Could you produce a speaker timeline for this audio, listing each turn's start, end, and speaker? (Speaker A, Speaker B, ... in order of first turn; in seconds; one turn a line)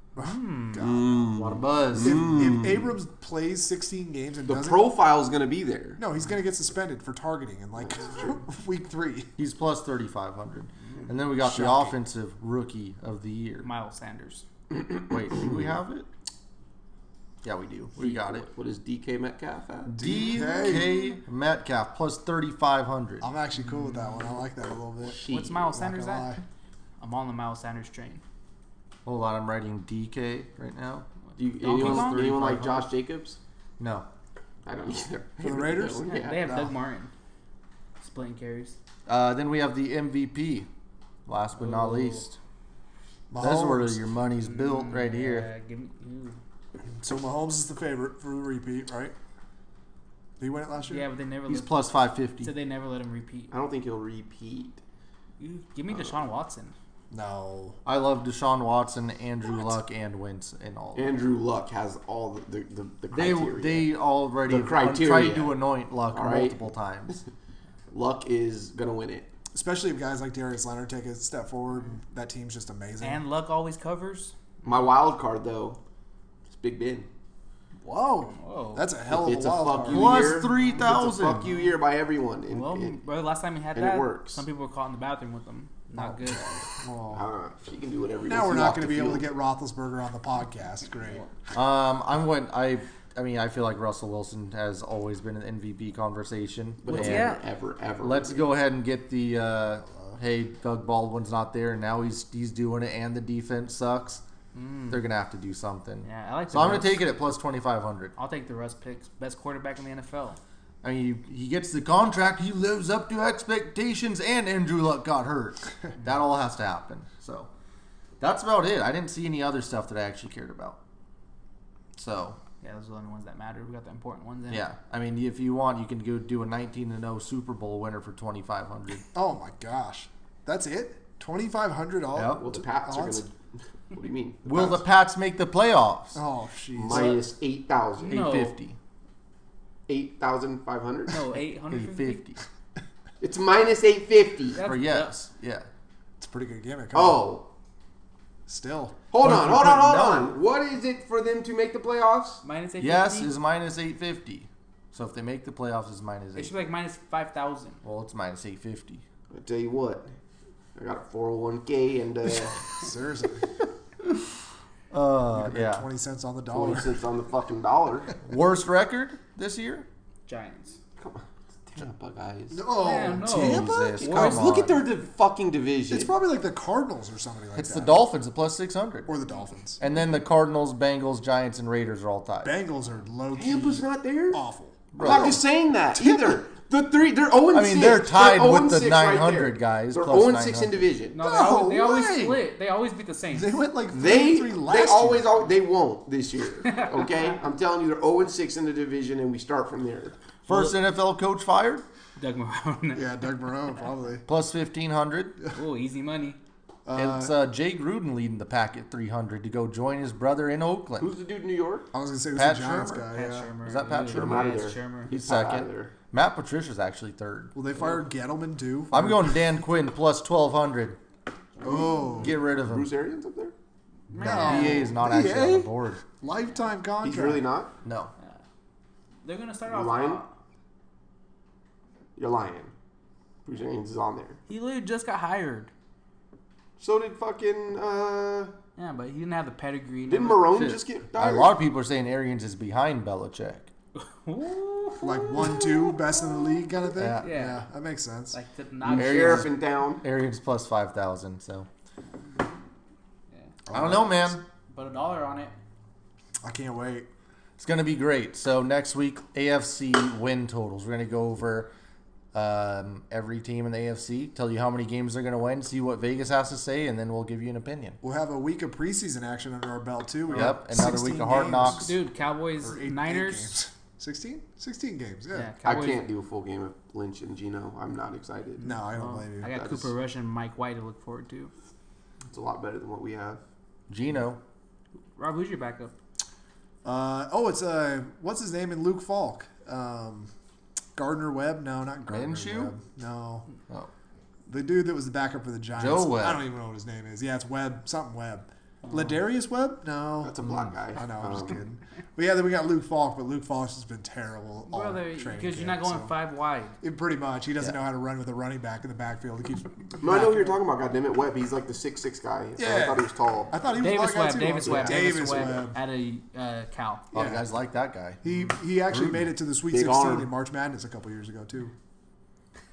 Speaker A: 0.2-1.2
Speaker B: 0.2-0.9
Speaker C: 0.8-2.8
Speaker D: 1.3-2.6
Speaker A: 2.0-4.9
Speaker C: 4.5-6.0
Speaker A: 6.0-9.3
Speaker C: 7.9-8.4
Speaker D: 9.4-13.7
Speaker A: 11.4-11.9
Speaker B: 13.6-14.5
Speaker C: 14.7-15.5
Speaker D: 15.1-16.1
Speaker D: 17.4-18.5
Speaker C: 18.0-20.0
Speaker D: 19.9-23.3
Speaker A: 19.9-21.0
Speaker A: 23.2-26.4
Speaker B: 23.7-24.2
Speaker C: 25.0-25.7
Speaker B: 25.3-26.3
Speaker B: 27.0-28.2
Speaker D: 29.1-31.1
Speaker C: 31.4-33.4
Speaker B: 31.6-32.4
Speaker D: 31.6-32.9
Speaker D: 33.8-34.1
Speaker C: 34.7-36.5
Speaker A: 35.4-36.7
Speaker B: 36.0-37.1
Speaker B: 38.0-38.8
Speaker D: 39.1-40.7
Speaker D: 41.3-42.4
Speaker B: 41.6-42.2
Speaker A: 43.3-44.0
Speaker D: 43.4-45.5
Speaker B: 44.4-46.4
Speaker A: 47.0-49.1
Speaker A: 50.4-51.1
Speaker B: 50.9-51.9
Speaker D: 51.5-52.5
Speaker B: 52.4-53.5
Speaker C: 53.5-54.8
Speaker B: 55.4-56.7
Speaker A: 57.1-57.8
Speaker D: 57.9-61.2
Speaker C: 61.0-63.9
Speaker D: 63.1-67.2
Speaker C: 64.5-67.2
Speaker C: 67.9-69.3
Speaker A: 69.5-73.2
Speaker B: 73.0-74.8
Speaker C: 74.7-75.8
Speaker C: 76.5-77.1
Speaker A: 77.8-80.3
Speaker B: 78.4-78.9
Speaker C: 79.1-83.0
Speaker D: 79.9-81.6
Speaker B: 80.5-80.9
Speaker B: 82.5-86.7
Speaker C: 83.7-84.4
Speaker A: 86.7-87.2
Speaker C: 87.1-89.3
Speaker A: 88.3-91.3
Speaker D: 91.5-97.4
Speaker C: 96.8-98.5
Speaker B: 96.9-97.4
Speaker D: 98.0-104.2
Speaker B: 104.5-105.0
Speaker D: 104.9-108.1
Speaker B: 106.0-107.1
Speaker B: 108.2-110.4
Speaker D: 110.8-117.5
Speaker D: 118.2-120.8
Speaker D: 122.0-122.4
Speaker B: 122.6-124.7
Speaker D: 124.5-129.0
Speaker A: 129.1-133.3
Speaker D: 132.2-132.4
Speaker C: 132.3-133.4
Speaker C: 133.9-134.8
Speaker D: 134.5-136.2
Speaker A: 136.2-137.2
Speaker C: 136.8-138.3
Speaker B: 138.0-138.5
Speaker D: 138.1-138.8
Speaker C: 139.9-141.2
Speaker B: 141.1-142.3
Speaker D: 141.4-142.4
Speaker C: 143.2-144.6
Speaker B: 144.6-145.1
Speaker D: 144.6-145.7
Speaker A: 146.2-147.3
Speaker C: 146.9-147.5
Speaker A: 148.5-149.1
Speaker C: 149.1-152.4
Speaker D: 149.2-150.3
Speaker B: 152.4-153.3
Speaker D: 152.8-156.5
Speaker B: 156.4-157.8
Speaker D: 157.8-159.0
Speaker C: 159.3-160.1
Speaker C: 160.8-162.7
Speaker A: 162.8-163.5
Speaker D: 164.9-165.9
Speaker A: 165.3-167.0
Speaker C: 166.5-168.2
Speaker D: 168.2-169.9
Speaker B: 170.3-170.8
Speaker C: 171.0-172.7
Speaker A: 172.5-174.0
Speaker B: 172.8-174.7
Speaker D: 173.2-174.9
Speaker C: 174.0-176.1
Speaker A: 175.9-178.1
Speaker D: 177.6-179.1
Speaker A: 179.1-179.8
Speaker D: 179.8-182.5
Speaker A: 182.4-185.4
Speaker C: 183.3-184.4
Speaker D: 184.9-185.4
Speaker C: 185.0-191.2
Speaker A: 185.9-186.4
Speaker D: 187.5-190.9
Speaker B: 191.1-193.6
Speaker A: 191.2-192.4
Speaker A: 193.3-195.3
Speaker C: 193.9-200.2
Speaker D: 200.5-201.8
Speaker B: 200.5-200.7
Speaker B: 202.2-203.2
Speaker A: 202.9-204.3
Speaker D: 204.3-205.4
Speaker B: 205.5-206.4
Speaker A: 206.9-207.4
Speaker D: 206.9-211.2
Speaker C: 211.0-211.9
Speaker A: 211.9-213.5
Speaker D: 212.3-213.1
Speaker B: 213.1-215.1
Speaker D: 213.6-217.5
Speaker C: 214.1-215.9
Speaker A: 217.5-219.5
Speaker D: 218.9-221.0
Speaker A: 221.6-222.4
Speaker C: 221.6-223.6
Speaker D: 222.2-222.9
Speaker B: 224.1-224.9
Speaker D: 224.1-226.0
Speaker A: 224.2-227.5
Speaker C: 227.0-227.7
Speaker D: 227.8-228.1
Speaker B: 229.2-230.3
Speaker C: 229.7-230.2
Speaker C: 232.2-232.7
Speaker C: 233.4-234.4
Speaker B: 234.5-235.7
Speaker C: 236.8-238.5
Speaker B: 238.8-240.6
Speaker C: 240.1-241.6
Speaker D: 240.5-243.7
Speaker B: 244.0-246.7
Speaker A: 245.0-248.4
Speaker D: 246.9-247.3
Speaker B: 247.2-247.7
Speaker B: 248.3-249.5
Speaker C: 248.8-250.1
Speaker D: 248.9-251.7
Speaker A: 253.7-254.4
Speaker D: 253.7-254.4
Speaker B: 254.7-255.6
Speaker A: 256.4-257.1
Speaker D: 257.6-261.7
Speaker D: 262.3-268.0
Speaker A: 268.0-271.9
Speaker B: 270.3-270.6
Speaker D: 270.3-271.9
Speaker B: 271.6-273.5
Speaker A: 272.6-275.6
Speaker B: 275.3-276.0
Speaker C: 275.6-278.7
Speaker A: 278.6-279.6
Speaker B: 279.0-281.5
Speaker C: 279.5-279.9
Speaker C: 282.3-283.4
Speaker D: 283.9-284.4
Speaker B: 285.2-285.9
Speaker A: 286.8-290.3
Speaker A: 291.0-293.5
Speaker D: 292.1-292.7
Speaker A: 294.5-300.4
Speaker D: 295.8-296.4
Speaker B: 298.9-299.2
Speaker C: 300.2-301.6
Speaker A: 300.9-306.1
Speaker B: 304.7-306.8
Speaker A: 306.8-310.0
Speaker C: 310.0-313.6
Speaker B: 310.0-310.6
Speaker A: 312.6-315.8
Speaker B: 313.8-317.1
Speaker C: 314.6-315.6
Speaker D: 317.1-318.2
Speaker A: 317.1-317.5
Speaker A: 318.2-321.7
Speaker D: 318.9-319.3
Speaker C: 319.7-320.3